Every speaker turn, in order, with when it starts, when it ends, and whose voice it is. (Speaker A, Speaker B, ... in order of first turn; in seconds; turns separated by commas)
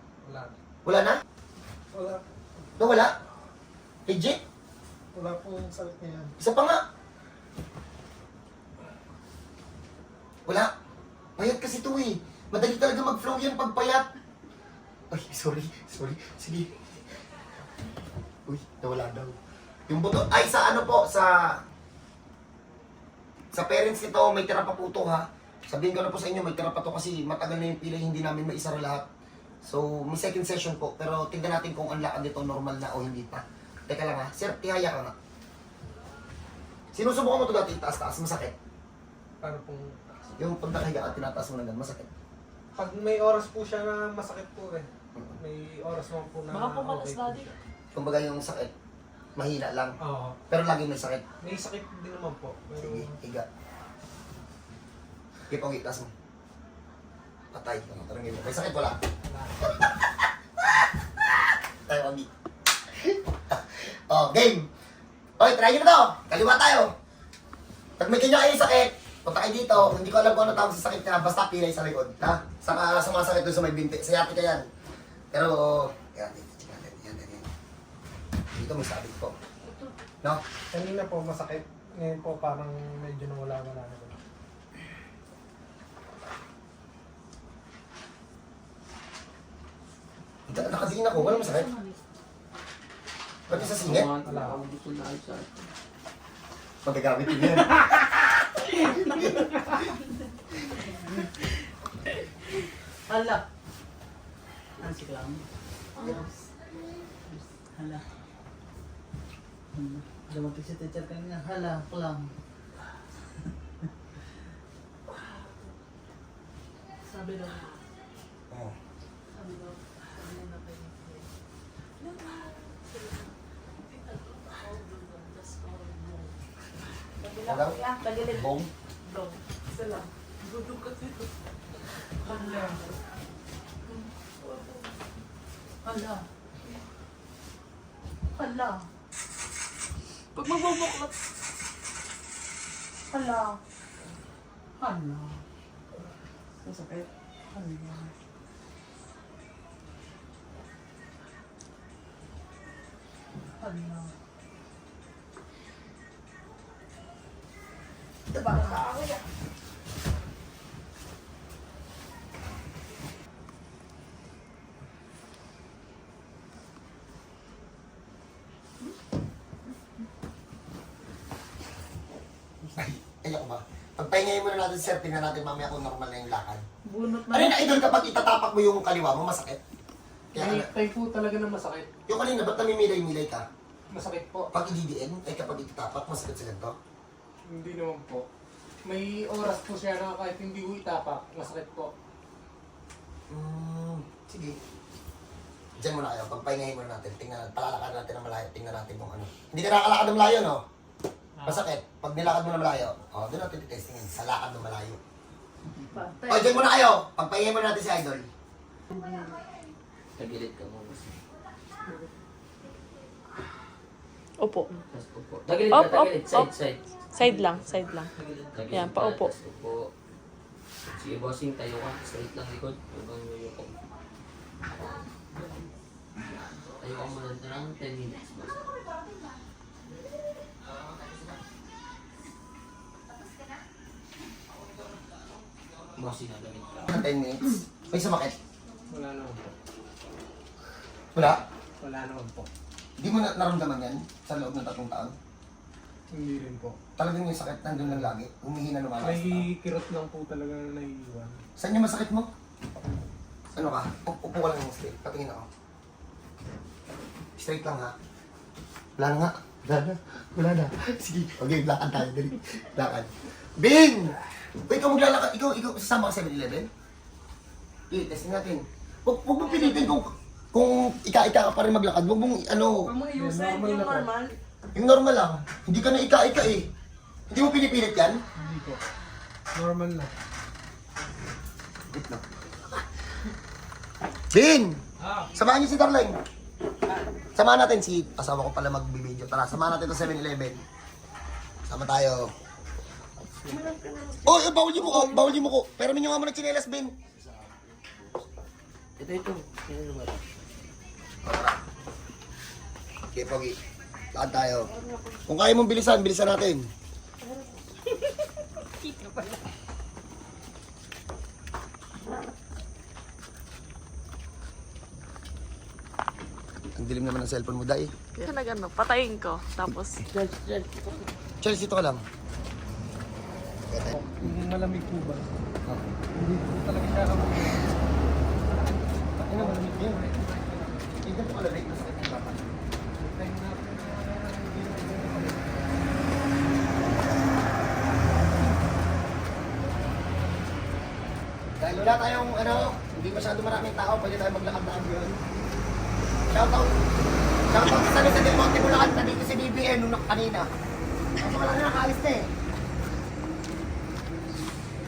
Speaker A: 0.2-0.6, Speaker B: 0.8-1.2, Speaker A: 1.9-2.2, Speaker B: 2.8-3.2, Speaker B: 4.1-4.4, Speaker A: 5.1-6.3, Speaker B: 6.4-6.8, Speaker B: 10.5-10.7, Speaker B: 11.4-14.1, Speaker B: 15.1-16.8, Speaker B: 18.5-19.4, Speaker B: 19.9-21.6, Speaker B: 23.5-29.1, Speaker B: 29.6-35.1, Speaker B: 36.9-38.5, Speaker A: 39.4-40.3, Speaker B: 40.4-42.1, Speaker A: 42.8-47.6, Speaker C: 46.5-47.5, Speaker B: 47.9-48.7, Speaker B: 49.4-50.0, Speaker A: 50.0-50.4, Speaker B: 50.5-51.2, Speaker A: 51.4-53.1, Speaker B: 52.8-53.5, Speaker B: 55.5-56.1, Speaker B: 57.5-59.0, Speaker A: 59.2-59.7, Speaker B: 59.8-60.1, Speaker B: 60.6-62.3, Speaker B: 62.9-64.7, Speaker B: 65.4-66.9, Speaker B: 68.0-74.7, Speaker B: 75.3-77.5, Speaker B: 78.5-79.4, Speaker A: 80.7-84.2, Speaker B: 90.5-91.7, Speaker B: 93.5-94.1, Speaker D: 93.5-95.7, Speaker A: 93.9-94.6, Speaker B: 96.8-98.1, Speaker B: 99.1-99.5, Speaker E: 103.1-103.4, Speaker E: 104.8-105.5, Speaker E: 106.0-106.3, Speaker E: 107.3-108.0, Speaker E: 109.7-112.3, Speaker C: 117.1-117.8, Speaker C: 119.3-121.3, Speaker C: 122.0-123.3, Speaker C: 123.9-126.3, Speaker C: 127.2-131.3, Speaker B: 127.4-128.7, Speaker C: 132.2-132.9, Speaker A: 132.3-132.7, Speaker C: 134.4-135.0, Speaker C: 135.9-136.2, Speaker C: 138.4-138.9, Speaker C: 140.4-141.1, Speaker F: 140.5-140.9, Speaker C: 143.1-143.6, Speaker C: 144.8-145.1, Speaker C: 146.6-148.1, Speaker C: 158.3-159.2, Speaker B: 172.8-176.7, Speaker C: 176.8-178.0, Speaker B: 177.3-179.6, Speaker B: 180.3-180.7, Speaker A: 180.3-181.9, Speaker B: 182.1-183.4, Speaker A: 183.9-184.5, Speaker B: 184.5-186.8, Speaker A: 187.5-188.3, Speaker A: 188.8-191.9, Speaker B: 193.3-194.6, Speaker B: 195.8-200.6, Speaker A: 201.4-201.7, Speaker B: 201.4-205.0, Speaker C: 205.9-206.7, Speaker B: 206.3-208.3, Speaker D: 210.2-211.1, Speaker D: 214.9-219.9, Speaker F: 215.7-216.5, Speaker F: 217.2-218.1, Speaker F: 218.7-219.3, Speaker D: 221.0-223.8, Speaker D: 226.8-228.8, Speaker D: 235.9-237.0, Speaker B: 236.8-238.4, Speaker A: 238.9-239.5, Speaker B: 241.1-241.4, Speaker A: 241.8-242.5, Speaker B: 243.0-245.2, Speaker A: 246.1-246.8, Speaker B: 247.0-249.5, Speaker A: 247.7-248.2, Speaker A: 249.0-251.4, Speaker B: 251.6-252.3, Speaker B: 253.5-255.5, Speaker B: 257.4-257.9, Speaker B: 259.0-266.7, Speaker B: 267.9-272.9, Speaker C: 272.9-274.3, Speaker A: 273.1-274.1, Speaker B: 274.7-276.7, Speaker B: 277.3-278.2, Speaker A: 278.4-278.8, Speaker A: 279.5-280.1, Speaker B: 281.9-282.2, Speaker B: 284.3-284.8, Speaker A: 285.0-285.3, Speaker B: 285.3-286.2, Speaker B: 287.4-290.6, Speaker B: 291.7-292.3, Speaker B: 294.2-296.9, Speaker D: 297.3-298.0, Speaker D: 299.0-300.1, Speaker B: 301.2-301.6, Speaker B: 303.1-303.6, Speaker B: 304.1-304.7, Speaker B: 305.3-306.7, Speaker B: 316.8-317.9, Speaker F: 318.2-320.1, Speaker D: 320.1-320.6, Speaker B: 321.4-322.0, Speaker B: 323.7-324.3, Speaker A: 323.9-325.3, Speaker A: 326.1-331.1, Speaker B: 329.2-330.0, Speaker B: 331.1-332.6, Speaker A: 332.9-335.8, Speaker B: 341.6-345.2, Speaker B: 346.3-346.8, Speaker B: 347.5-350.5, Speaker B: 351.2-352.3